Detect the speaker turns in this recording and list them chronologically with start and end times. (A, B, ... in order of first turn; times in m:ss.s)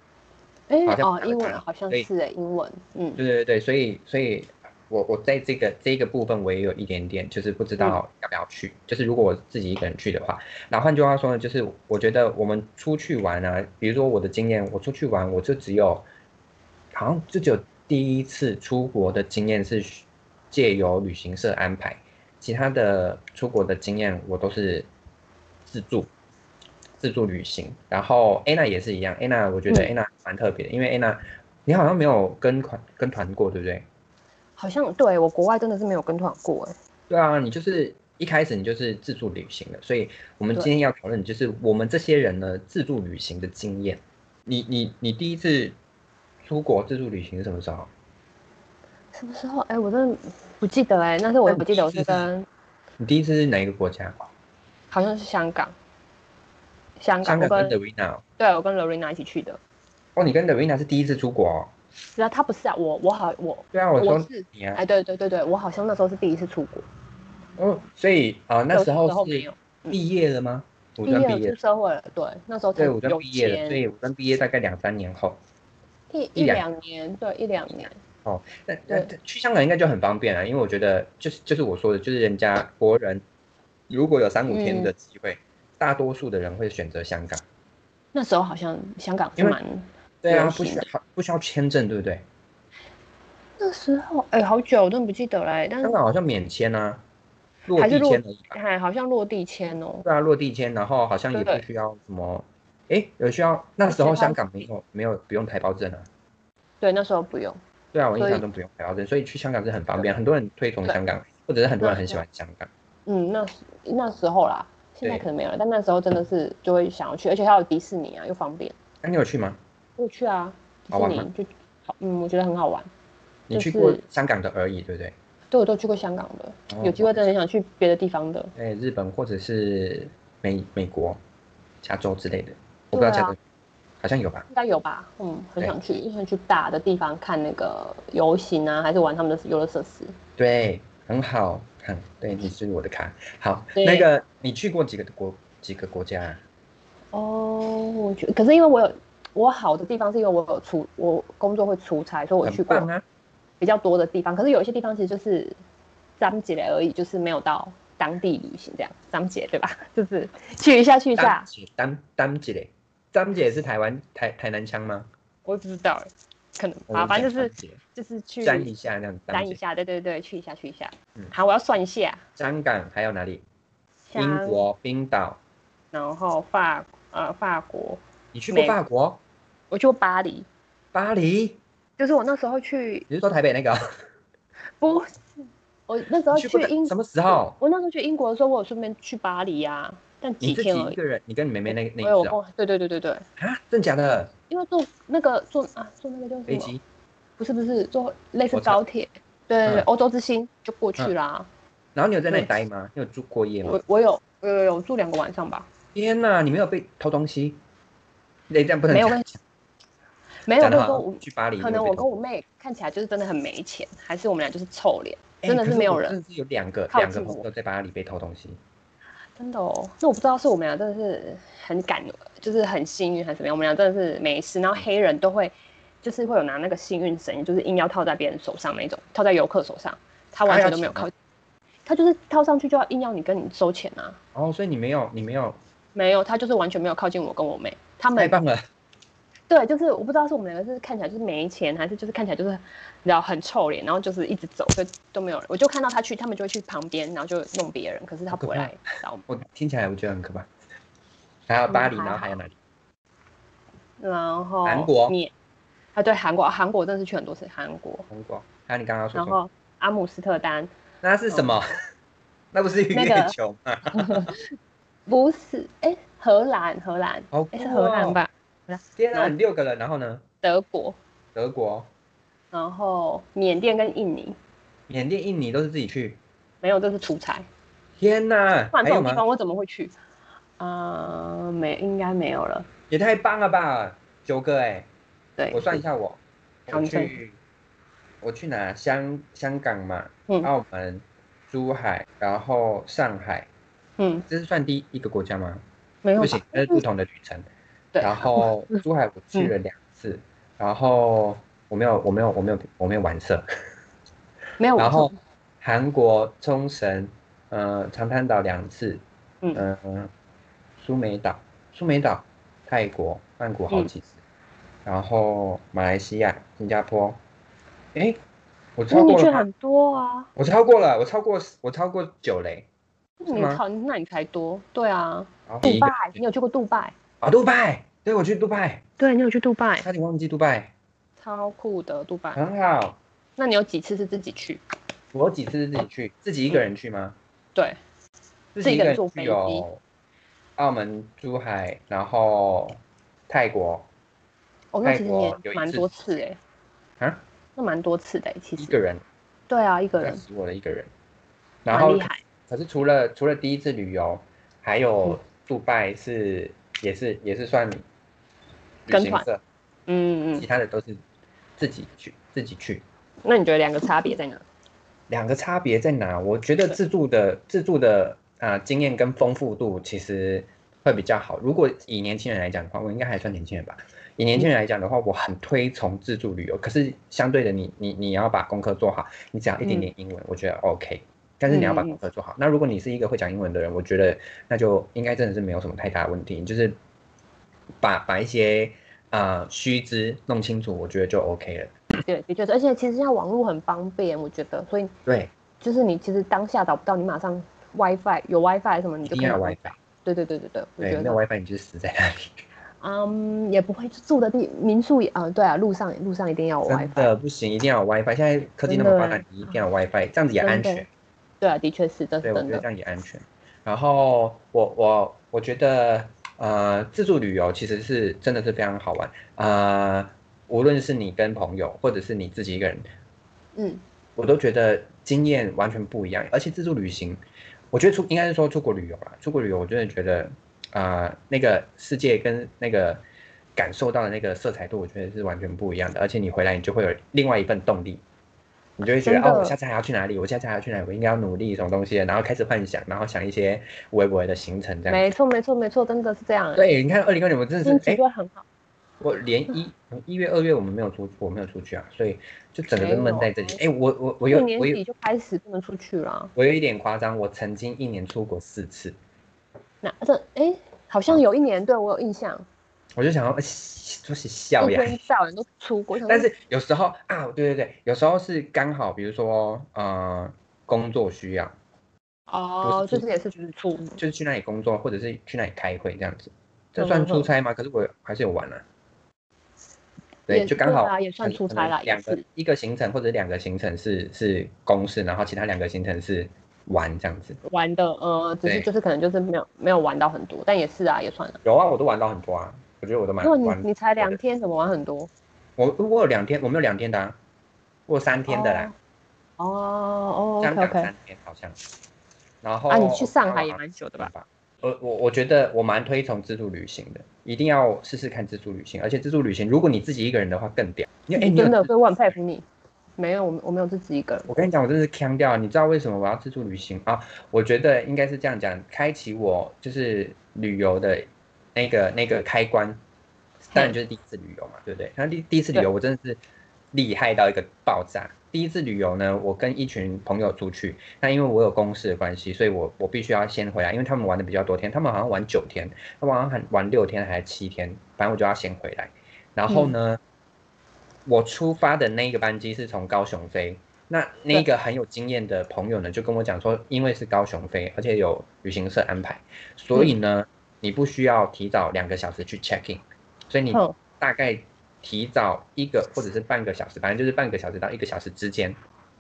0:00.7-0:03.2 A
0:00.8-0:02.1 B
0:03.2-0:16.0 B
0:16.9-0:24.9 B
0:25.6-0:26.1 B
0:27.0-0:33.8 B
0:34.6-0:36.7 A
0:37.1-0:45.8 B
0:46.4-0:47.9 B
0:49.1-0:52.4 A
0:51.5-0:52.2 B
0:53.0-0:54.3 B
0:54.9-0:55.7 A
0:57.0-0:57.7 A
0:57.2-0:58.2 B
0:58.4-0:59.6 A
1:00.2-1:01.7 B
1:02.1-1:06.8 A
1:03.7-1:04.8 B
1:07.6-1:11.5 B
1:08.7-1:10.0 A
1:11.0-1:13.8 A
1:12.8-1:15.4 B
1:16.1-1:18.0 A
1:16.4-1:16.6 B
1:18.2-1:23.2 B
1:23.9-1:27.4 B
1:24.5-1:24.9 A
1:28.1-1:30.8 A
1:30.2-1:32.2 B
1:33.6-1:36.0 A
1:35.8-1:37.0 B
1:37.7-1:38.6 B
1:37.8-1:40.1 A
1:40.0-1:46.1 B
1:41.3-1:41.6 A
1:43.9-1:44.6 A
1:46.8-1:47.6 A
1:47.9-1:52.7 B
1:48.2-1:48.4 A
1:51.8-1:52.2 A
1:53.0-1:58.8 A
1:59.0-1:59.6 B
2:00.0-2:02.9 A
2:00.9-2:01.3 B
2:03.5-2:05.1 B
2:03.5-2:04.0 A
2:05.5-2:08.5 A
2:06.7-2:07.3 B
2:08.5-2:11.2 B
2:11.8-2:13.4 B
2:12.9-2:13.4 A
2:14.0-2:14.5 B
2:14.5-2:20.1 A
2:20.4-2:26.4 B
2:23.7-2:24.1 A
2:27.1-2:32.9 A
2:32.4-2:33.0 B
2:33.6-2:35.6 A
2:36.2-2:41.5 A
2:41.2-2:45.1 B
2:45.4-2:48.7 A
2:46.9-2:47.8 B
2:48.4-2:49.6 B
2:49.3-2:52.2 A
2:52.4-2:53.4 B
2:54.1-2:54.6 A
2:54.2-2:55.4 B
2:55.9-2:58.0 A
2:58.3-2:59.2 B
2:58.5-2:58.8 A
2:59.7-3:00.5 A
3:00.9-3:01.6 B
3:02.0-3:03.1 A
3:03.1-3:03.8 B
3:04.8-3:05.1 A
3:05.9-3:11.0 A
3:06.3-3:07.6 B
3:10.4-3:12.4 B
3:11.7-3:13.2 A
3:13.4-3:14.3 B
3:14.5-3:16.7 A
3:16.5-3:16.8 B
3:17.4-3:21.5 A
3:18.5-3:18.8 B
3:21.9-3:23.8 B
3:23.6-3:25.7 A
3:25.9-3:27.6 B
3:28.5-3:29.4 B
3:28.9-3:29.2 A
3:30.4-3:36.2 A
3:30.6-3:32.1 B
3:35.4-3:38.6 B
3:36.9-3:37.4 A
3:39.4-3:51.1 A
3:50.4-3:51.1 B
3:51.8-3:54.2 A
3:54.3-3:55.6 B
3:55.9-3:58.3 A
3:58.2-3:58.6 B
3:59.5-4:09.3 A
4:08.3-4:10.5 B
4:11.5-4:12.5 B
4:11.7-4:12.4 A
4:14.0-4:15.3 A
4:14.6-4:15.2 B
4:15.9-4:18.1 A
4:18.1-4:19.4 B
4:19.1-4:20.7 A
4:21.0-4:21.6 B
4:21.3-4:21.6 A
4:22.5-4:24.3 B
4:22.9-4:23.3 A
4:23.9-4:24.4 A
4:25.1-4:29.3 A
4:27.3-4:28.2 B
4:29.0-4:30.2 B
4:30.4-4:31.0 A
4:31.3-4:31.9 B
4:32.5-4:34.4 A
4:34.9-4:36.2 B
4:36.6-4:37.5 A
4:38.0-4:39.2 B
4:38.7-4:39.9 A
4:40.6-4:42.7 A
4:42.9-4:44.9 B
4:45.4-4:45.8 A
4:45.5-4:47.4 B
4:46.7-4:47.1 A
4:48.2-4:53.5 B
4:54.0-4:54.3 A
4:54.3-4:55.6 B
4:56.0-4:56.8 A
4:56.2-4:57.4 B
4:57.9-4:58.8 A
4:58.0-5:03.4 B
5:04.6-5:05.1 A
5:04.8-5:05.1 B
5:05.6-5:09.0 B
5:09.5-5:10.1 B
5:10.8-5:14.2 B
5:14.8-5:17.2 B
5:17.9-5:18.2 B
5:18.8-5:19.4 B
5:18.9-5:20.3 A
5:20.4-5:22.7 B
5:23.2-5:26.9 A
5:23.3-5:23.6 B
5:25.5-5:26.2 B
5:27.2-5:28.8 B
5:29.0-5:29.9 A
5:29.8-5:30.7 B
5:31.2-5:32.4 A
5:32.3-5:33.0 B
5:33.4-5:34.6 A
5:35.1-5:37.2 B
5:38.5-5:39.8 B
5:38.6-5:39.6 A
5:40.6-5:43.9 B
5:44.7-5:46.4 A
5:44.8-5:45.9 B
5:47.6-5:48.7 A
5:48.6-5:49.0 B
5:49.5-5:50.2 A
5:50.0-5:50.9 B
5:51.6-5:57.8 B
5:51.7-5:52.2 A
5:58.8-5:59.4 B
5:58.9-5:59.2 A
5:59.9-6:00.4 A
6:00.4-6:01.0 B
6:01.6-6:02.8 B
6:03.2-6:04.4 A
6:05.1-6:26.8 B
6:19.6-6:19.9 A
6:21.5-6:22.0 A
6:27.8-6:31.7 B
6:32.0-6:34.9 A
6:35.0-6:35.3 B
6:35.6-6:41.2 A
6:39.0-6:39.8 B
6:40.8-6:42.4 B
6:42.8-6:47.1 A
6:46.6-6:50.9 B
6:48.7-6:49.5 A
6:50.4-6:50.8 A
6:51.4-6:52.6 A
6:52.2-7:02.8 B
7:03.5-7:03.8 A
7:04.2-7:07.2 B
7:07.7-7:13.0 B
7:13.6-7:18.0 B
7:18.8-7:25.0 B
7:18.8-7:19.5 A
7:24.9-7:26.6 A
7:26.5-7:28.0 B
7:27.6-7:28.4 A
7:29.0-7:34.8 B
7:32.7-7:33.6 A
7:34.3-7:36.3 A
7:36.4-7:39.0 B
7:39.8-7:42.4 A
7:43.0-7:45.0 B
7:44.6-7:46.3 A
7:46.0-7:51.5 B
7:52.3-7:54.0 A
7:52.6-7:53.0 B
7:54.0-7:58.6 B
7:56.8-7:57.3 A
8:00.3-8:07.4 B
8:00.3-8:02.2 A
8:07.4-8:11.4 A
8:11.4-8:14.2 B
8:13.2-8:15.1 A
8:15.6-8:17.2 B
8:17.9-8:18.7 B
8:18.3-8:18.7 A
8:19.4-8:20.9 A
8:20.4-8:21.6 B
8:22.4-8:31.7 B
8:22.7-8:24.1 A
8:31.1-8:32.4 A
8:33.0-8:34.3 A
8:34.3-8:42.8 B
8:43.5-8:46.2 B
8:46.7-9:00.0 B
8:59.5-8:59.7 A
9:01.0-9:18.6 B
9:13.5-9:13.8 A